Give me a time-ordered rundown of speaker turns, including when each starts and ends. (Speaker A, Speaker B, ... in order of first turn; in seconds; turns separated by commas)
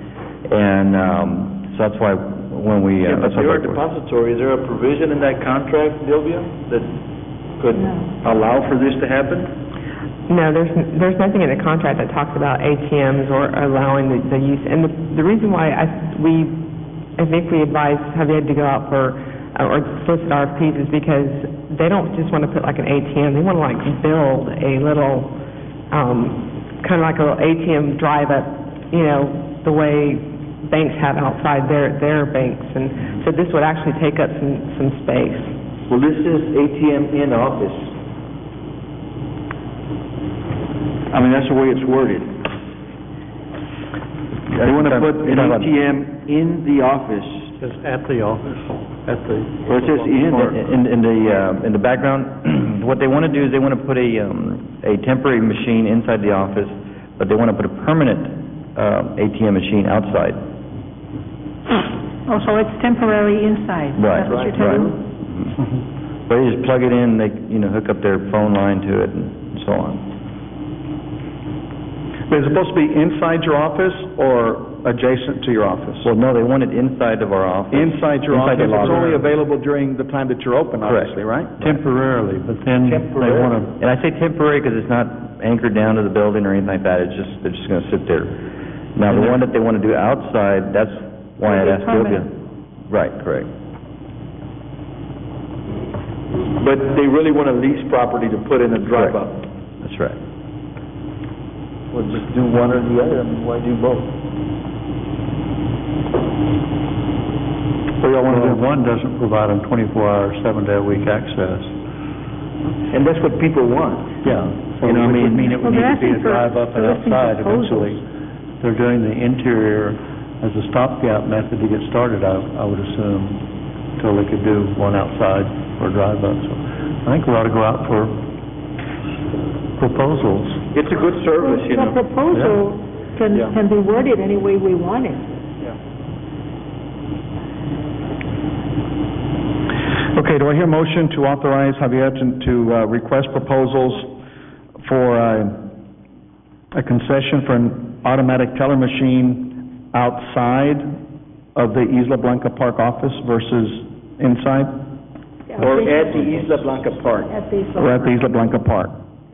Speaker A: 0.5-3.8, Speaker B: 3.0-6.9, Speaker B: 7.6-9.5, Speaker C: 7.8-8.1, Speaker D: 10.3-16.6, Speaker D: 17.2-25.4, Speaker D: 25.9-35.6, Speaker B: 35.9-37.9, Speaker B: 41.1-42.3, Speaker A: 44.5-45.7, Speaker B: 44.6-47.6, Speaker E: 47.6-50.5, Speaker B: 49.6-50.6, Speaker A: 50.4-60.4, Speaker C: 62.3-64.9, Speaker A: 64.0-65.5, Speaker B: 64.3-64.9, Speaker A: 66.3-70.0, Speaker F: 72.3-76.1, Speaker A: 76.0-79.3, Speaker F: 77.7-81.6, Speaker A: 80.8-81.8, Speaker E: 81.6-83.8, Speaker B: 82.8-83.5, Speaker A: 83.7-88.4, Speaker A: 89.0-92.3, Speaker C: 91.5-92.3, Speaker A: 92.9-93.5, Speaker B: 96.6-99.4, Speaker A: 99.8-100.2, Speaker B: 101.9-104.1, Speaker F: 108.0-108.6, Speaker E: 108.2-111.8, Speaker B: 112.9-115.6, Speaker E: 114.2-118.0, Speaker C: 115.6-118.0, Speaker E: 118.6-128.4, Speaker E: 129.8-130.6, Speaker B: 130.7-132.0, Speaker C: 131.4-135.3, Speaker E: 132.3-132.7, Speaker F: 140.1-144.2, Speaker F: 144.8-145.7, Speaker F: 146.7-150.9, Speaker F: 151.6-154.9, Speaker C: 155.5-156.5, Speaker B: 155.7-157.3, Speaker C: 157.3-158.4, Speaker F: 157.7-159.0